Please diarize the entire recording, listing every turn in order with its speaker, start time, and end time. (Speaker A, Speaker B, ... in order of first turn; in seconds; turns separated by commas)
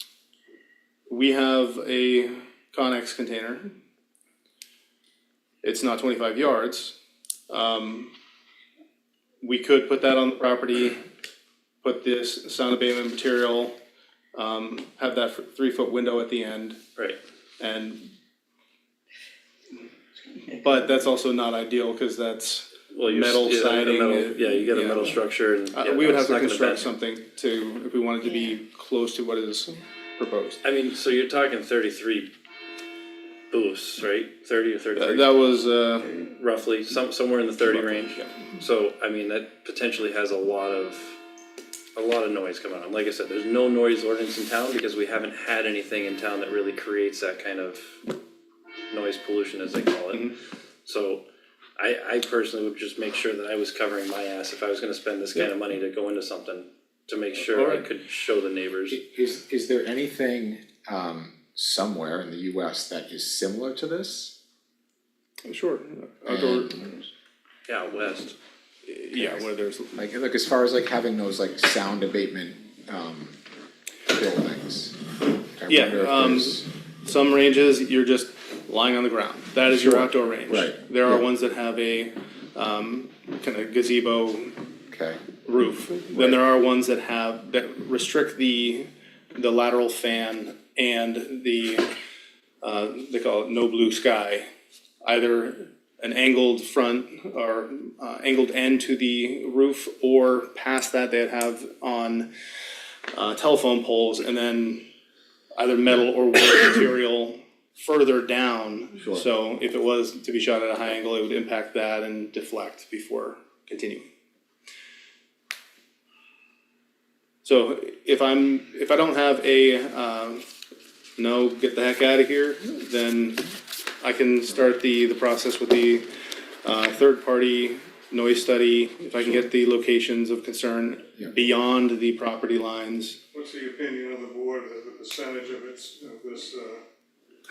Speaker A: 1.1-3.7, Speaker A: 5.6-6.9, Speaker A: 7.5-8.1, Speaker A: 9.4-11.0, Speaker A: 11.8-13.7, Speaker A: 14.3-16.8, Speaker A: 17.6-18.1, Speaker A: 20.5-25.2, Speaker B: 22.9-26.9, Speaker A: 25.7-30.6, Speaker B: 30.6-32.3, Speaker B: 33.5-35.4, Speaker A: 34.9-36.3, Speaker B: 36.4-41.2, Speaker A: 37.6-38.5, Speaker B: 41.9-48.0, Speaker B: 48.9-50.3, Speaker B: 50.9-51.2, Speaker B: 51.8-59.0, Speaker A: 57.5-57.9, Speaker C: 58.9-64.3, Speaker A: 65.4-67.0, Speaker C: 66.2-66.9, Speaker B: 67.7-68.3, Speaker A: 68.9-70.0, Speaker C: 69.2-73.3, Speaker C: 74.1-75.0, Speaker C: 75.5-76.7, Speaker A: 75.7-84.5, Speaker C: 79.7-81.2, Speaker C: 84.9-85.2, Speaker A: 85.5-91.9, Speaker A: 92.6-94.5, Speaker A: 95.0-102.3, Speaker A: 103.1-104.8, Speaker A: 105.5-114.1, Speaker A: 117.4-120.4, Speaker A: 121.2-123.5, Speaker A: 124.0-126.0, Speaker A: 126.6-133.2, Speaker D: 133.3-136.8